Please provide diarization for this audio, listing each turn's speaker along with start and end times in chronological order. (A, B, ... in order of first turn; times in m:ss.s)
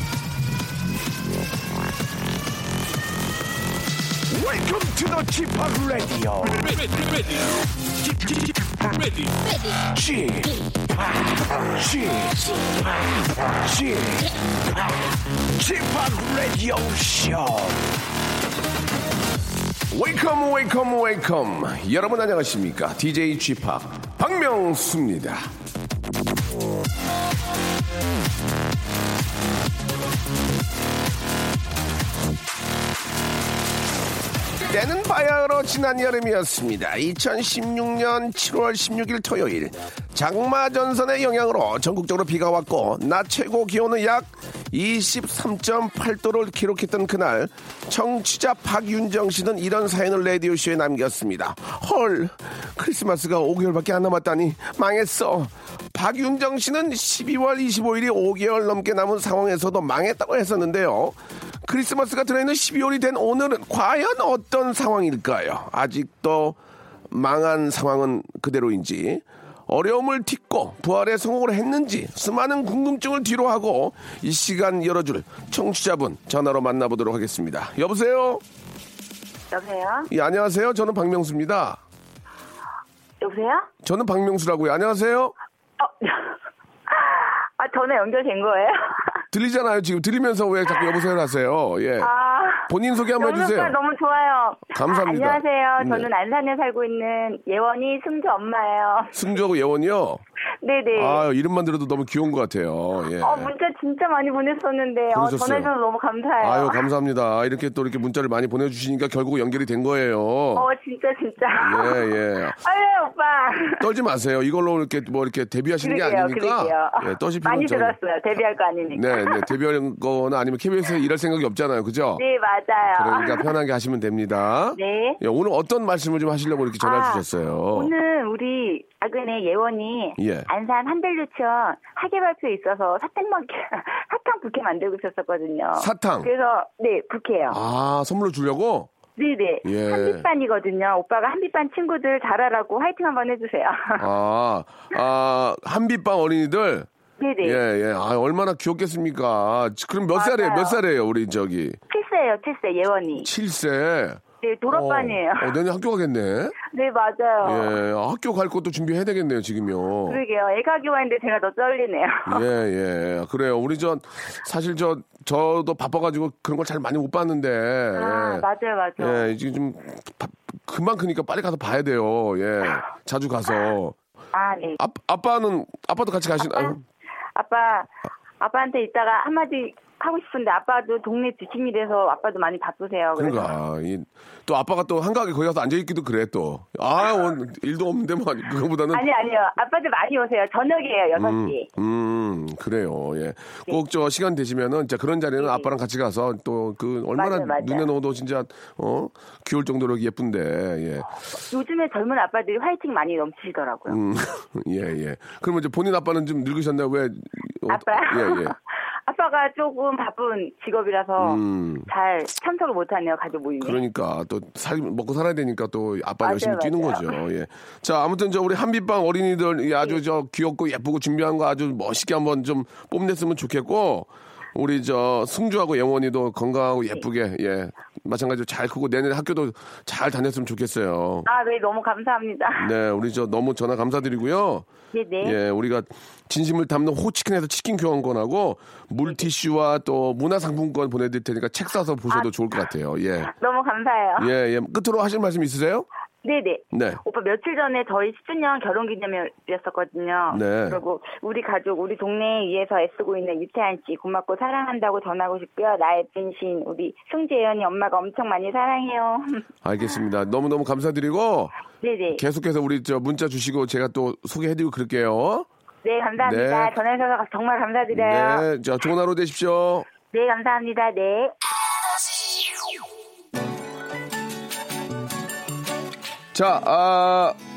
0:04.3-0:07.2 A
0:08.1-0:09.3 A
0:09.8-0:17.9 A
0:19.9-0:25.5 A
0:34.7-1:06.6 A
1:07.1-1:18.4 A
1:19.5-1:20.1 B
1:20.1-1:21.8 A
1:23.2-1:23.7 B
1:23.8-1:25.3 A
1:25.8-1:29.2 B
1:29.3-1:32.1 A
1:32.0-1:39.2 B
1:32.6-1:33.7 A
1:34.7-1:36.1 A
1:39.1-1:40.2 A
1:40.6-1:41.2 B
1:40.9-1:43.5 A
1:43.2-1:46.8 B
1:45.1-1:45.7 A
1:46.4-1:50.7 A
1:50.6-1:52.0 B
1:51.6-1:52.6 A
1:52.6-1:53.8 B
1:53.8-1:58.0 A
1:55.8-1:59.4 B
1:58.9-2:02.2 A
2:02.2-2:03.4 B
2:02.9-2:07.9 A
2:04.7-2:05.2 B
2:06.8-2:17.6 B
2:10.2-2:10.5 A
2:15.8-2:16.3 A
2:17.5-2:18.9 A
2:19.2-2:24.0 B
2:19.6-2:20.2 A
2:24.0-2:26.9 A
2:27.2-2:27.6 B
2:27.4-2:31.8 A
2:30.1-2:30.8 B
2:31.9-2:33.3 B
2:33.2-2:36.6 A
2:34.4-2:35.5 B
2:36.6-2:37.7 B
2:37.4-2:40.2 A
2:40.1-2:42.4 B
2:42.3-2:48.4 A
2:48.0-2:49.2 B
2:49.0-2:54.0 A
2:54.3-2:54.8 B
2:54.8-2:56.8 A
2:56.4-2:56.7 B
2:57.4-3:03.5 B
3:03.2-3:09.0 A
3:08.9-3:11.6 B
3:11.1-3:21.1 A
3:15.4-3:15.7 B
3:17.2-3:17.9 B
3:21.5-3:24.0 B
3:23.9-3:28.5 A
3:27.7-3:28.5 B
3:29.1-3:33.8 B
3:31.2-3:31.9 A
3:33.6-3:51.3 A
3:36.2-3:37.2 B
3:51.3-3:52.7 B
3:52.6-3:54.7 A
3:54.9-3:55.4 B
3:55.2-4:03.3 A
4:03.3-4:04.3 B
4:04.2-4:05.8 A
4:06.2-4:19.4 B
4:06.7-4:07.0 A
4:10.3-4:10.8 A
4:19.6-4:21.5 A
4:21.8-4:22.2 B
4:22.1-4:25.5 A
4:25.8-4:28.4 B
4:26.2-4:26.7 A
4:27.9-4:29.8 A
4:30.1-4:31.4 B
4:36.3-4:37.4 A